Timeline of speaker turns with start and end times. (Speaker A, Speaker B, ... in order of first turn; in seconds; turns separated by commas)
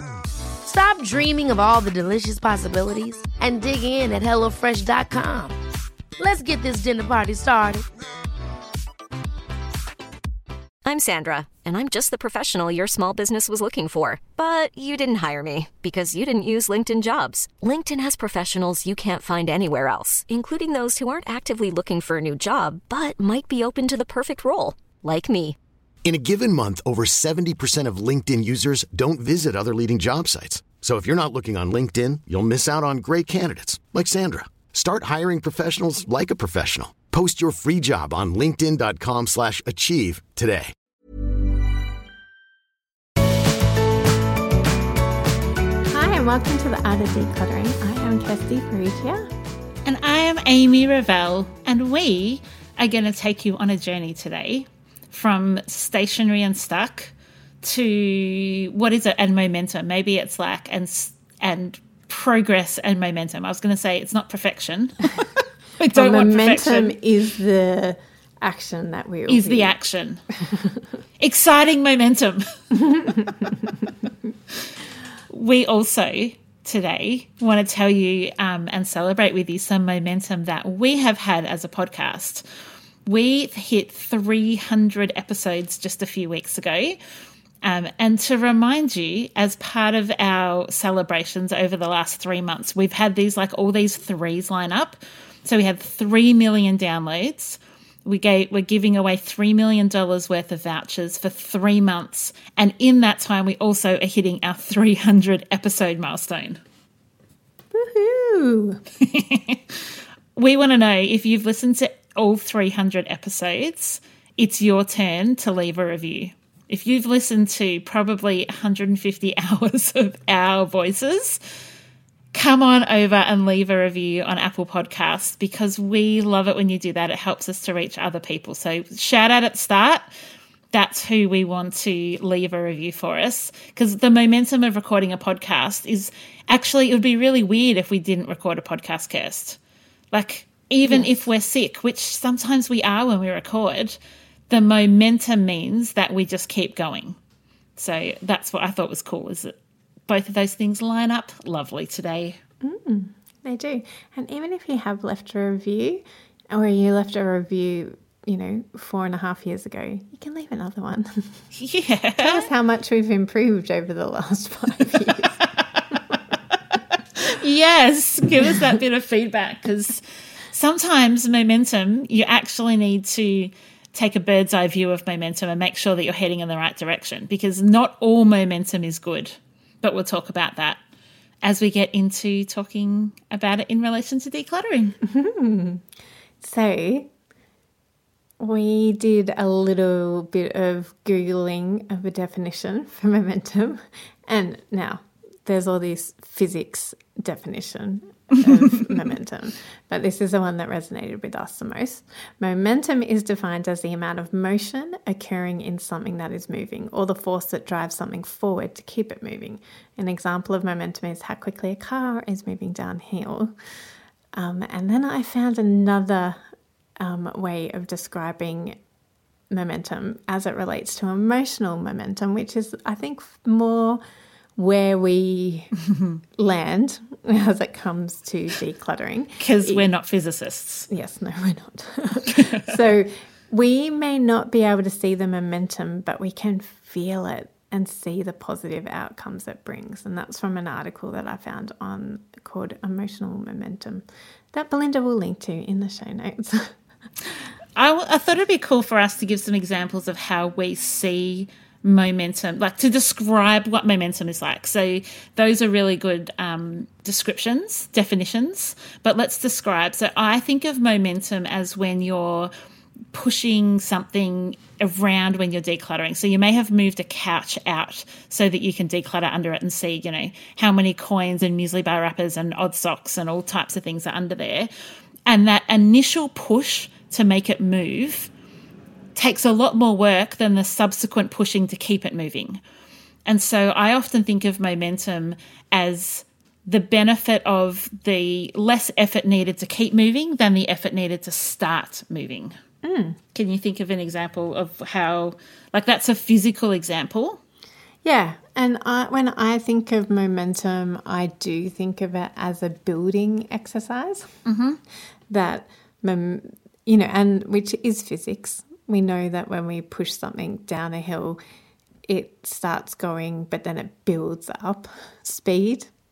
Speaker A: 0.6-5.6, Speaker A: 6.2-7.8, Speaker B: 10.8-25.6, Speaker C: 26.1-40.7, Speaker D: 45.9-49.3, Speaker E: 49.9-67.0, Speaker D: 65.9-69.7, Speaker E: 69.3-70.2, Speaker D: 70.5-70.8, Speaker E: 71.2-73.5, Speaker D: 72.9-73.5, Speaker E: 75.3-82.5, Speaker E: 83.1-87.0, Speaker E: 87.6-106.6, Speaker D: 107.7-108.8, Speaker E: 109.0-121.4, Speaker E: 122.3-130.1, Speaker E: 130.7-139.6, Speaker E: 140.1-144.0, Speaker D: 140.8-141.3, Speaker E: 144.5-147.2, Speaker E: 147.8-149.5, Speaker E: 150.1-152.4, Speaker D: 152.6-161.4, Speaker E: 161.6-162.5, Speaker D: 162.2-165.4, Speaker E: 165.4-166.2, Speaker E: 167.2-180.8, Speaker E: 181.4-185.0, Speaker D: 185.0-185.8, Speaker D: 186.4-187.1, Speaker D: 188.4-213.5, Speaker D: 214.3-216.4, Speaker D: 217.0-218.8, Speaker D: 219.5-224.0, Speaker D: 224.6-225.7, Speaker D: 226.4-229.9, Speaker E: 229.4-230.9, Speaker D: 230.9-246.7, Speaker E: 232.3-232.7, Speaker E: 247.8-262.5, Speaker E: 263.1-274.7, Speaker E: 275.3-278.3, Speaker E: 279.1-282.6, Speaker E: 283.3-292.5, Speaker D: 292.8-293.2, Speaker E: 293.3-297.4, Speaker D: 298.0-304.3, Speaker E: 304.5-304.8, Speaker D: 305.3-311.4, Speaker D: 312.1-315.9